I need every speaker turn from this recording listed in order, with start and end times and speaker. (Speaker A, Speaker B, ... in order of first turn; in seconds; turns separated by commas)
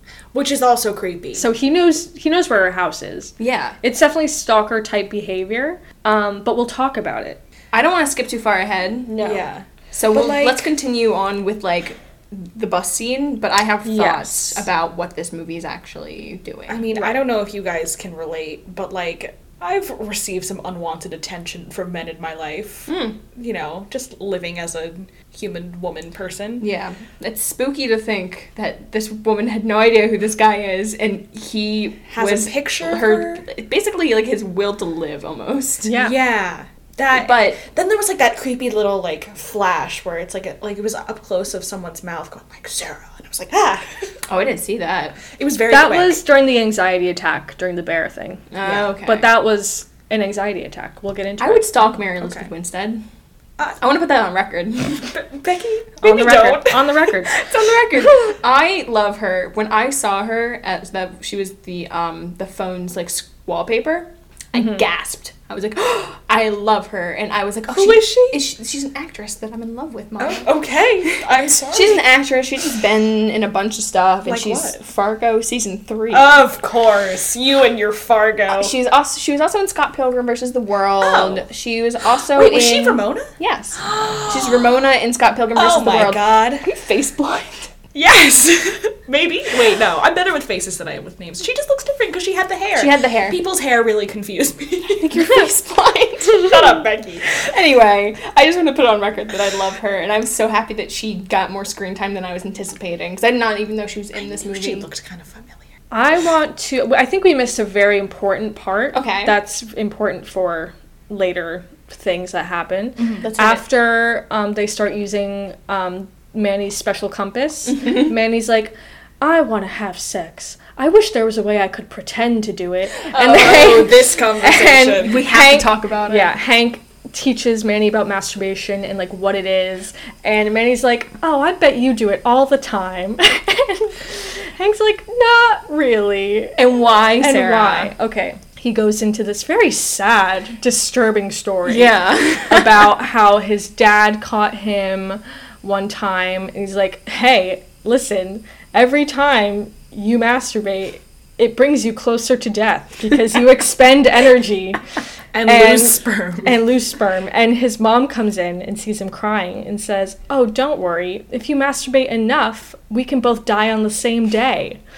Speaker A: 0.3-1.5, Speaker B: 1.4-7.4, Speaker C: 3.4-3.8, Speaker C: 7.7-9.1, Speaker B: 9.1-9.4, Speaker A: 9.2-10.6, Speaker C: 9.9-17.1, Speaker B: 13.8-14.6, Speaker A: 16.7-26.7, Speaker C: 22.9-23.2, Speaker C: 26.6-35.9, Speaker A: 32.1-33.4, Speaker B: 35.8-36.1, Speaker A: 36.0-44.1, Speaker C: 37.1-37.6, Speaker C: 44.3-45.2, Speaker A: 45.3-46.2, Speaker B: 45.7-48.4, Speaker C: 48.5-49.3, Speaker A: 48.6-48.9, Speaker B: 49.0-51.8, Speaker C: 51.4-53.0, Speaker A: 52.2-52.5, Speaker C: 53.8-55.1, Speaker A: 55.0-57.1, Speaker B: 56.0-57.4, Speaker C: 57.3-70.5, Speaker A: 67.7-68.5, Speaker A: 70.2-72.0, Speaker C: 71.7-76.4, Speaker A: 74.2-74.8, Speaker A: 76.1-78.7, Speaker C: 78.5-87.7, Speaker A: 81.0-81.4, Speaker A: 82.3-84.8, Speaker A: 85.5-86.7, Speaker A: 87.9-95.4, Speaker C: 92.7-93.4, Speaker C: 95.0-104.9, Speaker A: 96.3-97.3, Speaker A: 104.2-105.6, Speaker B: 105.9-136.6, Speaker C: 108.9-109.4, Speaker A: 113.0-113.2, Speaker C: 113.2-113.6, Speaker C: 123.1-123.9, Speaker A: 123.1-125.3, Speaker C: 125.0-126.3, Speaker C: 136.6-137.9, Speaker B: 137.2-154.8, Speaker C: 141.7-142.9, Speaker A: 155.3-156.6, Speaker B: 155.4-164.8